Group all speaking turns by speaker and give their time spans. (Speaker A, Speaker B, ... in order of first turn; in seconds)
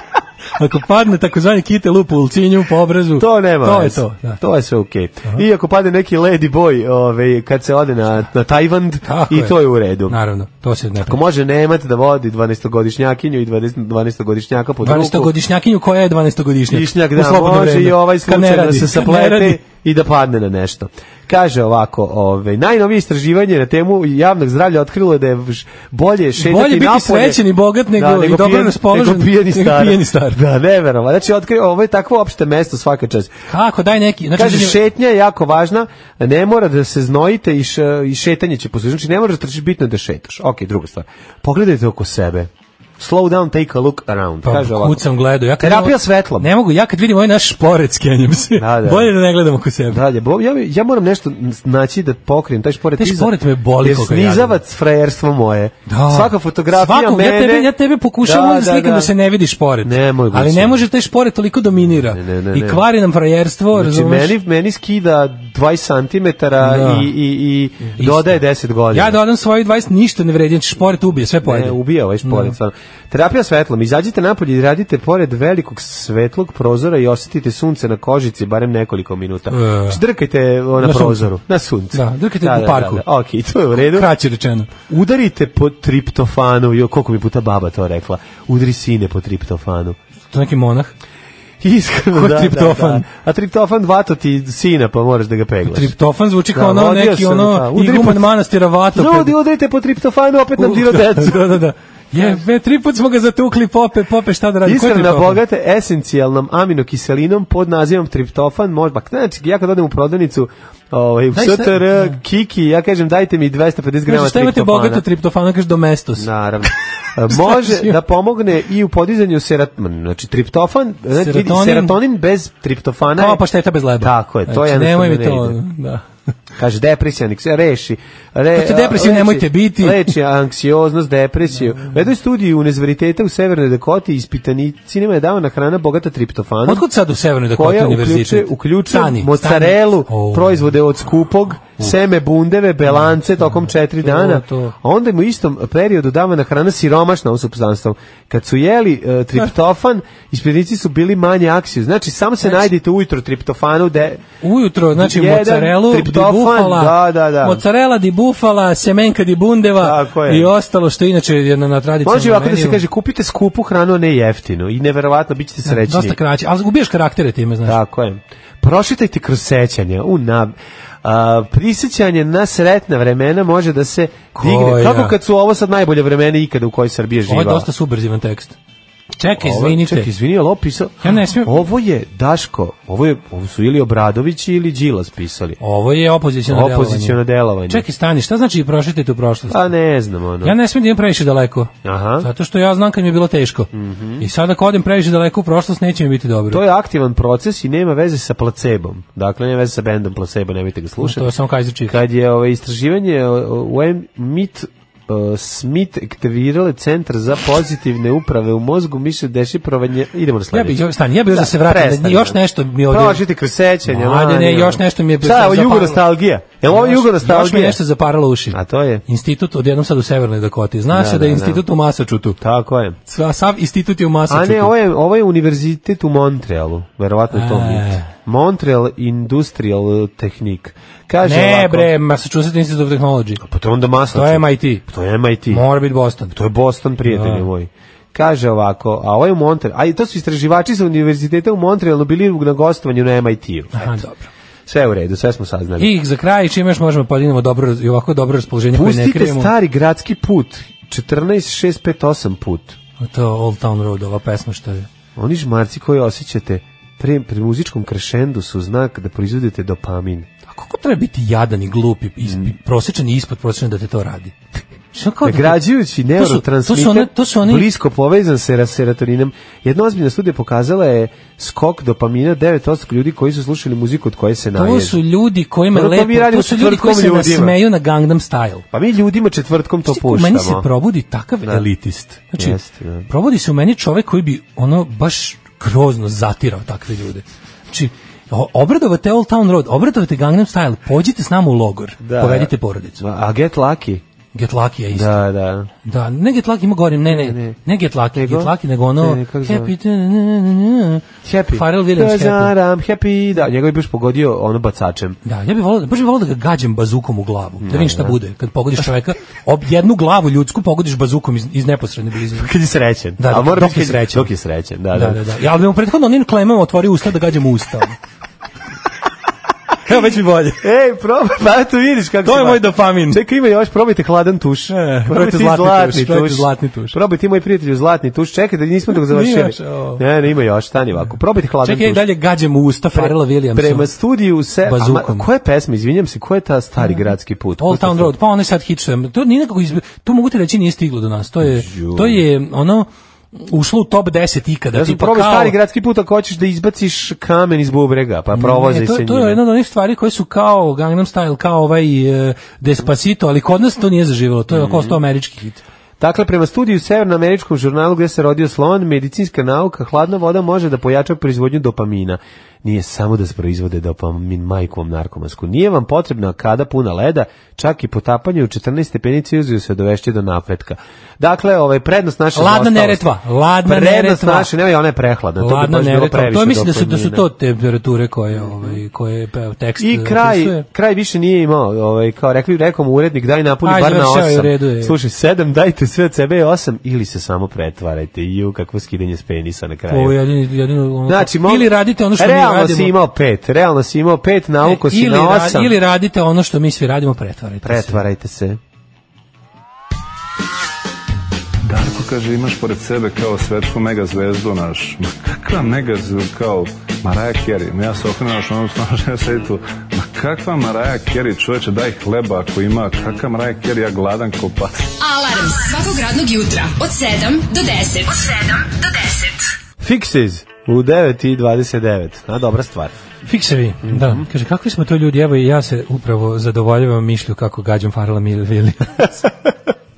Speaker A: 0.6-4.4, 9.0-11.2, 14.8-19.6, 26.4-30.4, 33.5-34.8, 44.4-50.0, 53.0-54.6, 55.9-64.3, 66.6-67.1, 67.8-68.4, 68.9-72.5, 79.5-80.0, 80.8-81.3, 81.9-83.0, 83.7-84.7, 90.3-90.9, 92.1-93.0, 95.7-99.3, 100.6-105.4, 111.3-112.2, 114.0-116.7, 117.3-118.0, 121.1-122.0, 123.2-126.1, 128.5-130.1, 136.7-140.7, 143.0-144.7, 154.4-162.8, 165.6-167.8, 174.4-175.1, 177.3-178.6, 179.2-180.1, 181.0-181.6, 185.6-189.7, 190.4-196.6, 201.0-202.0, 210.5-213.2, 213.8-216.0, 216.7-222.4, 223.1-224.7, 227.3-228.1, 231.2-233.4, 234.1-234.8, 235.5-236.3, 237.1-237.5, 243.7-244.3, 245.8-249.5, 253.0-254.9, 260.5-264.3, 264.9-265.6, 266.1-267.7, 274.5-278.6, 279.9-293.0, 294.3-295.2, 295.8-302.5, 305.2-312.5, 313.2-314.3, 314.9-318.0, 319.8-320.6, 322.2-323.2, 324.7-327.0, 328.9-330.0, 331.6-333.9, 334.6-335.2, 337.6-345.5, 348.3-355.6, 372.3-374.5, 375.4-380.6, 383.6-384.9, 389.9-392.9, 394.6-398.0, 423.2-429.1
Speaker B: 3.2-10.2, 11.0-15.3, 16.7-27.4, 27.9-33.3, 34.3-45.0, 45.6-46.5, 48.6-49.1, 49.9-59.1, 59.8-60.8, 61.8-62.8, 63.7-69.2, 71.4-84.1, 84.9-90.0, 91.6-95.9, 96.5-98.3, 98.9-101.6, 104.6-115.0, 116.2-123.4, 124.0-125.6, 126.6-136.8, 137.5-154.2, 154.9-157.6, 159.8-160.5, 162.0-166.2, 167.6-177.7, 179.4-185.6, 186.4-187.8, 189.5-190.6, 191.8-192.3, 193.7-194.3, 196.5-201.3, 201.9-217.8, 218.5-219.0, 220.9-221.6, 222.4-223.0, 224.3-231.9, 233.4-235.7, 236.3-244.1, 244.7-245.9, 248.7-252.8, 255.2-260.3, 265.2-275.0, 275.7-277.6, 278.7-280.7, 282.3-283.1, 292.0-294.0, 294.9-295.7, 297.1-297.6, 298.1-299.7, 301.2-305.2, 307.6-308.2, 312.4-315.2, 320.6-332.1, 332.9-338.1, 341.4-342.2, 344.7-349.4, 354.5-355.0, 356.0-373.1, 373.6-377.2, 378.3-378.8, 379.8-390.2, 391.1-395.7, 397.6-398.6, 419.8-422.9, 423.8-424.2
Speaker C: 401.6-414.8
Speaker D: 415.0-419.4